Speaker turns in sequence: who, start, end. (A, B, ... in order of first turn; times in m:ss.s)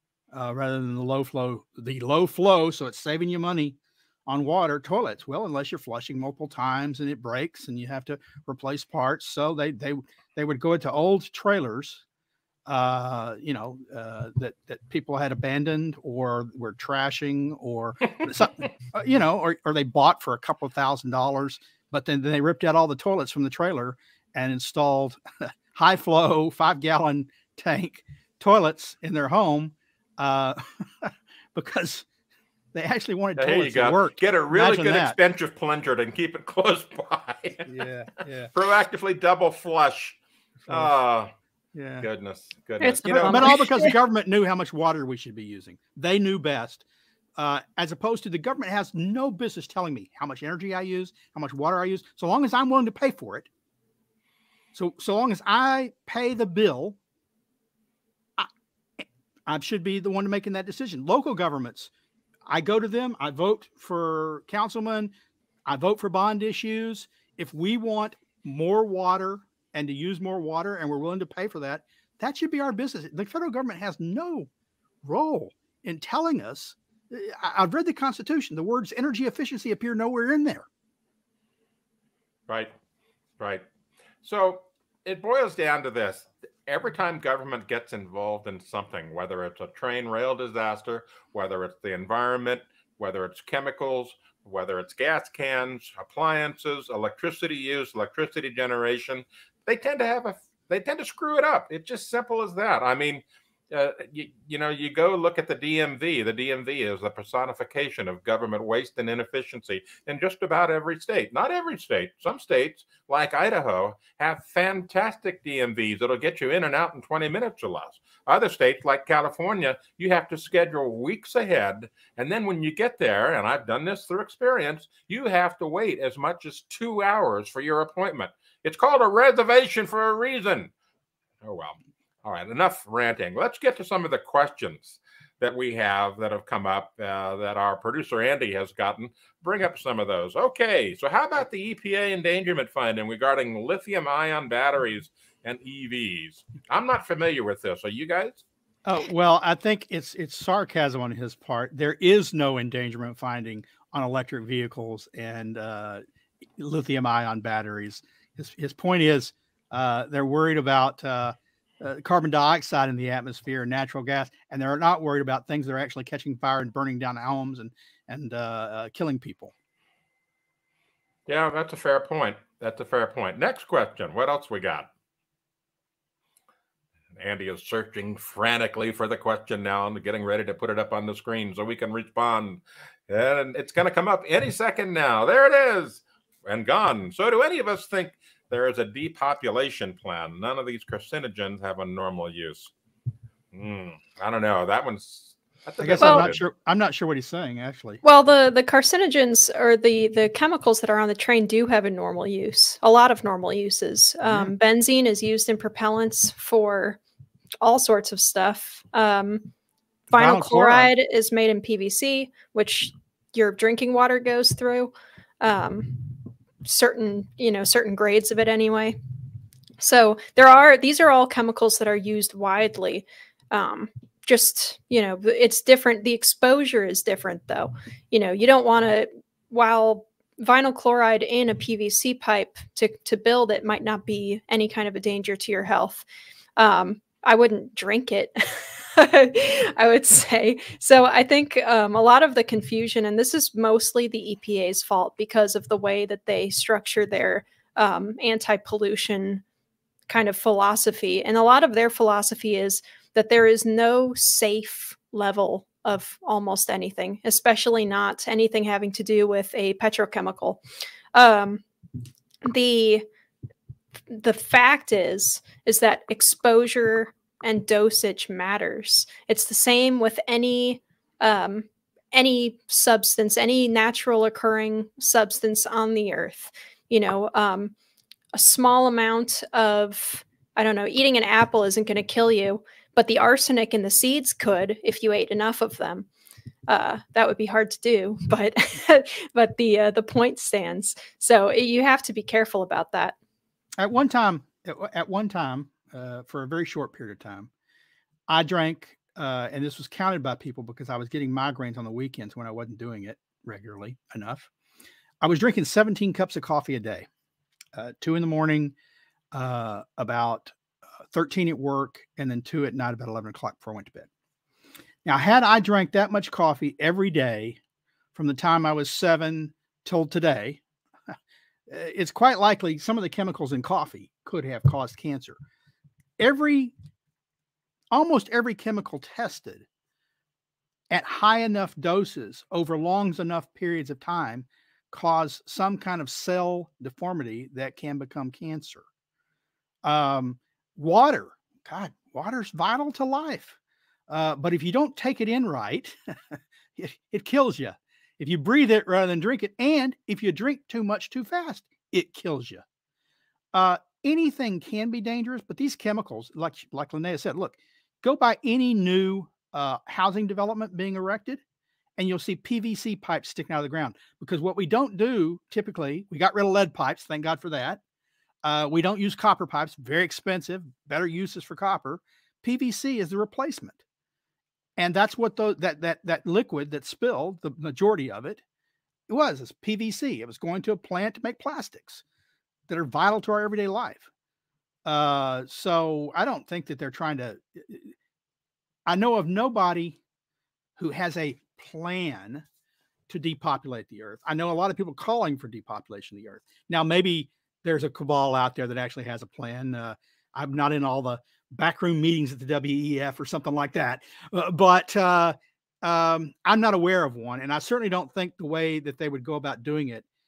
0:00.3-0:12.0 A
0:12.6-0:32.0 A
0:32.7-0:35.2 A
0:33.4-0:37.7 B
0:37.7-0:38.5 A
0:38.5-0:41.3 B
0:40.7-0:40.9 A
0:41.7-0:42.1 A
0:42.0-0:43.6 B
0:42.8-0:43.9 C
0:43.0-0:46.8 A
0:47.4-0:53.5 A
0:54.7-0:57.0 A
0:58.4-1:01.9 A
1:02.5-1:05.1 A
1:05.6-1:14.5 A
1:15.0-1:20.7 A
1:24.2-2:10.7 B
2:11.4-2:28.4 B
2:28.8-2:36.0 A
2:36.6-2:49.5 A
2:51.3-2:54.9 B
2:57.2-3:12.7 B
3:13.5-3:16.4 B
3:15.8-3:18.0 A
3:16.0-3:16.3 C
3:18.0-3:27.0 C
3:24.2-3:24.5 A
3:27.6-3:29.5 C
3:30.1-3:30.9 A
3:30.1-3:39.0 C
3:39.8-3:56.0 C
3:56.6-4:09.4 C
4:10.1-4:20.6 C
4:21.1-4:21.6 C
4:22.4-4:23.0 C
4:24.1-4:37.7 C
4:38.3-4:46.1 C
4:46.7-4:53.1 C
4:53.8-4:57.5 A
4:58.3-5:04.5 A
5:05.2-5:07.1 A
5:07.7-5:08.7 A
5:09.3-5:10.5 A
5:11.1-5:14.1 A
5:15.0-5:17.6 A
5:18.1-5:21.1 A
5:21.7-5:25.4 A
5:26.2-5:26.7 A
5:27.9-5:29.6 A
5:30.9-5:38.8 A
5:39.8-5:43.6 A
5:44.1-5:52.6 A
5:53.5-6:01.4 A
6:02.0-6:07.8 A
6:08.4-6:13.8 A
6:14.8-6:18.4 A
6:19.1-6:22.0 A
6:22.7-6:24.1 A
6:24.8-6:27.9 A
6:28.8-6:30.0 A
6:30.8-6:32.4 A
6:33.1-6:50.0 A